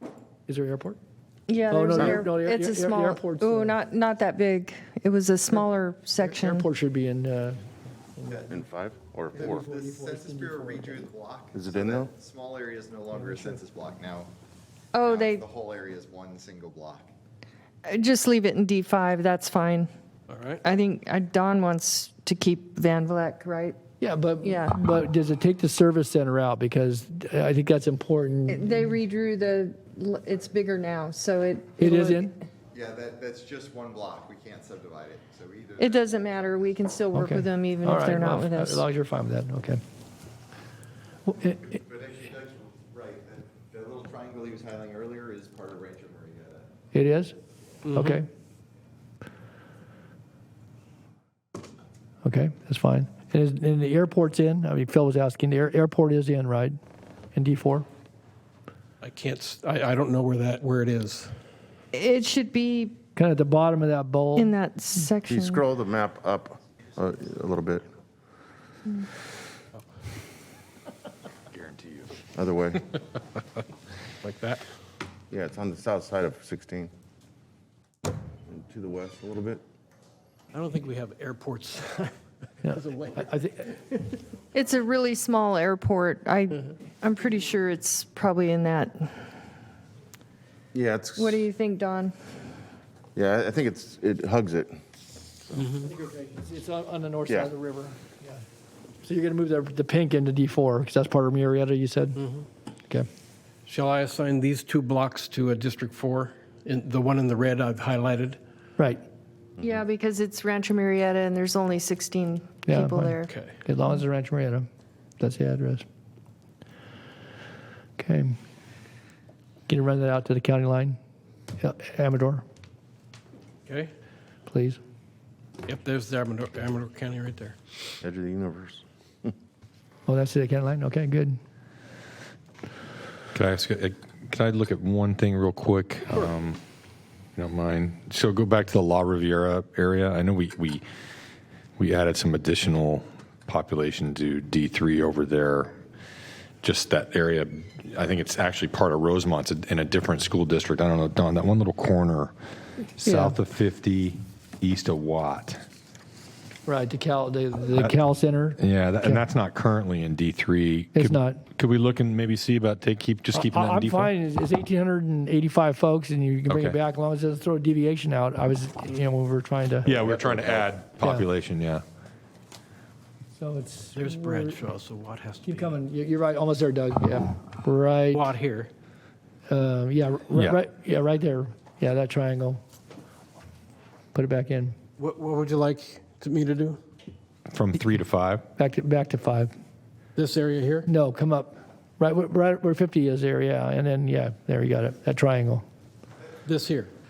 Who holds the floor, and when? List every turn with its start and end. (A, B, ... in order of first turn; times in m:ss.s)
0:00.5-0:01.0 A
0:01.5-0:06.6 B
0:01.7-0:03.7 A
0:02.0-0:02.2 C
0:06.2-0:07.6 A
0:08.2-0:08.5 A
0:08.5-0:09.6 C
0:09.3-0:11.1 A
0:09.4-0:14.3 D
0:11.5-0:12.1 C
0:14.9-0:15.4 B
0:15.0-0:17.1 D
0:17.8-0:19.9 B
0:20.3-0:20.6 E
0:20.6-0:23.8 B
0:24.0-0:28.9 A
0:24.4-0:24.8 B
0:28.5-0:32.3 B
0:31.8-0:32.3 A
0:32.7-0:36.7 D
0:35.8-0:38.8 B
0:37.1-0:39.8 A
0:41.3-0:41.6 A
0:41.4-0:46.7 D
0:46.9-0:47.3 A
0:47.9-0:48.3 A
0:52.2-0:56.8 A
0:57.3-0:57.9 A
0:59.0-1:01.3 E
1:01.9-1:03.0 B
1:03.2-1:04.5 A
1:04.4-1:05.6 B
1:05.3-1:07.9 C
1:11.5-1:12.1 F
1:12.3-1:12.9 C
1:14.2-1:14.6 E
1:15.3-1:16.9 C
1:18.5-1:19.6 C
1:20.5-1:23.3 E
1:22.6-1:23.9 A
1:24.5-1:29.3 B
1:30.7-1:31.4 C
1:31.1-1:32.1 B
1:33.1-1:34.8 C
1:35.4-1:35.7 C
1:35.6-1:35.9 E
1:35.8-1:38.4 A
1:39.0-1:42.2 A
1:42.2-1:42.5 E
1:43.6-1:48.4 E
1:49.6-1:53.3 B
1:52.7-1:54.7 A
1:53.3-1:53.6 E
1:55.2-1:55.8 A
1:58.0-1:58.4 A
1:59.7-2:01.0 A
2:01.6-2:02.4 A
2:03.6-2:03.9 E
2:04.5-2:04.8 A
2:05.6-2:07.6 E
2:08.0-2:09.3 C
2:10.1-2:11.4 A
2:13.3-2:16.6 F
2:17.4-2:20.8 F
2:21.8-2:25.7 F
2:26.6-2:32.3 F
2:33.0-2:35.6 F
2:33.0-2:33.4 A
2:36.6-2:39.2 A
2:38.6-2:44.1 F
2:40.9-2:41.4 A
2:43.3-2:49.9 A
2:46.5-2:46.8 F
2:49.8-2:51.8 F
2:51.0-2:51.3 A
2:53.4-2:54.6 A
2:53.9-2:55.8 E
2:55.4-2:58.3 A
2:58.1-2:58.7 E
2:59.5-3:02.6 A
3:00.3-3:00.6 F
3:04.1-3:04.8 A
3:05.0-3:06.8 E
3:07.5-3:08.4 F
3:08.6-3:09.5 A
3:10.2-3:10.9 E
3:10.8-3:15.6 A
3:16.5-3:16.9 E